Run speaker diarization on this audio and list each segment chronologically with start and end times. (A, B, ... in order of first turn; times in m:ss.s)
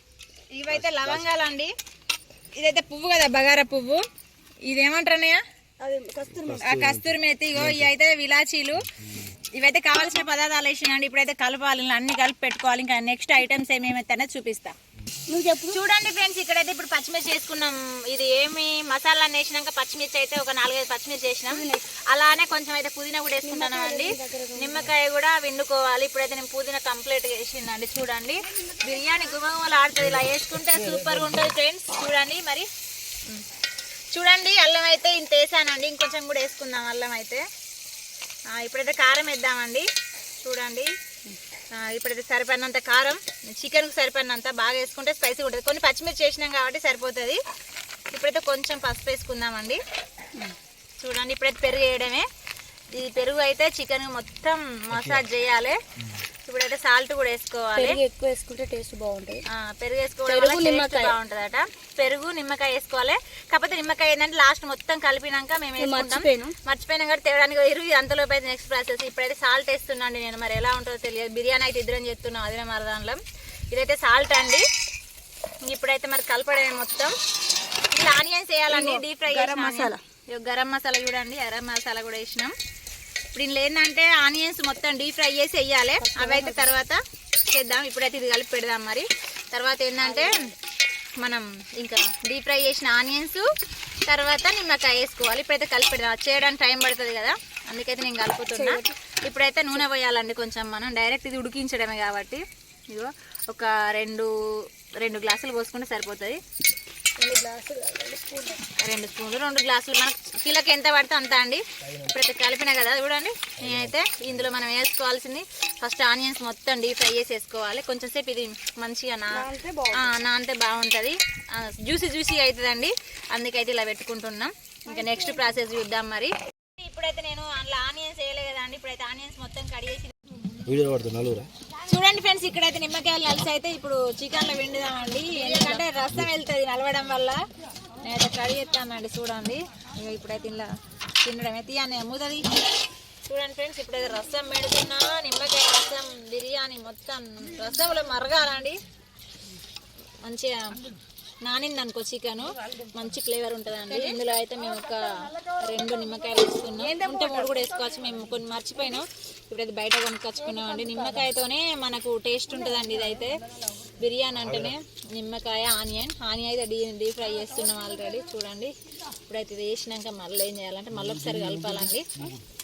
0:00.5-0:01.7 A
0:00.7-0:01.3 B
0:02.5-0:04.0 A
0:04.6-0:05.4 A
0:05.8-0:06.7 C
0:06.3-0:07.9 B
0:06.5-0:14.7 A
0:09.0-0:09.3 B
0:15.3-0:15.8 C
0:15.7-0:32.7 A
0:21.5-0:21.9 C
0:23.4-0:24.9 C
0:28.6-0:29.3 C
0:30.7-0:31.5 B
0:34.1-0:37.4 A
0:38.5-0:39.8 A
0:40.4-0:40.9 A
0:41.7-0:47.4 A
0:48.1-0:49.8 A
0:51.0-0:52.3 A
0:52.9-0:55.8 A
0:54.9-0:55.2 B
0:56.4-0:58.0 A
0:57.7-0:59.4 C
0:59.5-1:14.6 A
1:00.3-1:01.2 C
1:05.8-1:06.5 C
1:15.6-1:17.1 A
1:17.9-1:22.5 A
1:18.7-1:20.0 C
1:23.3-1:30.4 A
1:26.0-1:26.7 C
1:30.0-1:30.5 C
1:31.2-1:33.5 A
1:34.1-1:44.3 A
1:38.5-1:38.9 C
1:45.0-1:46.4 A
1:47.2-1:48.6 C
1:48.8-2:10.1 A
1:53.6-1:53.9 B
1:59.3-2:00.1 C
2:04.9-2:05.5 C
2:10.6-2:11.5 B
2:11.8-2:17.4 A
2:15.3-2:15.8 C
2:18.0-2:20.7 A
2:21.2-2:22.4 A
2:23.2-2:28.8 A
2:30.2-2:30.8 A
2:31.4-2:52.3 A
2:33.9-2:34.2 C
2:36.8-2:38.0 C
2:40.4-2:41.3 C
2:44.4-2:44.7 B
2:50.9-2:52.4 B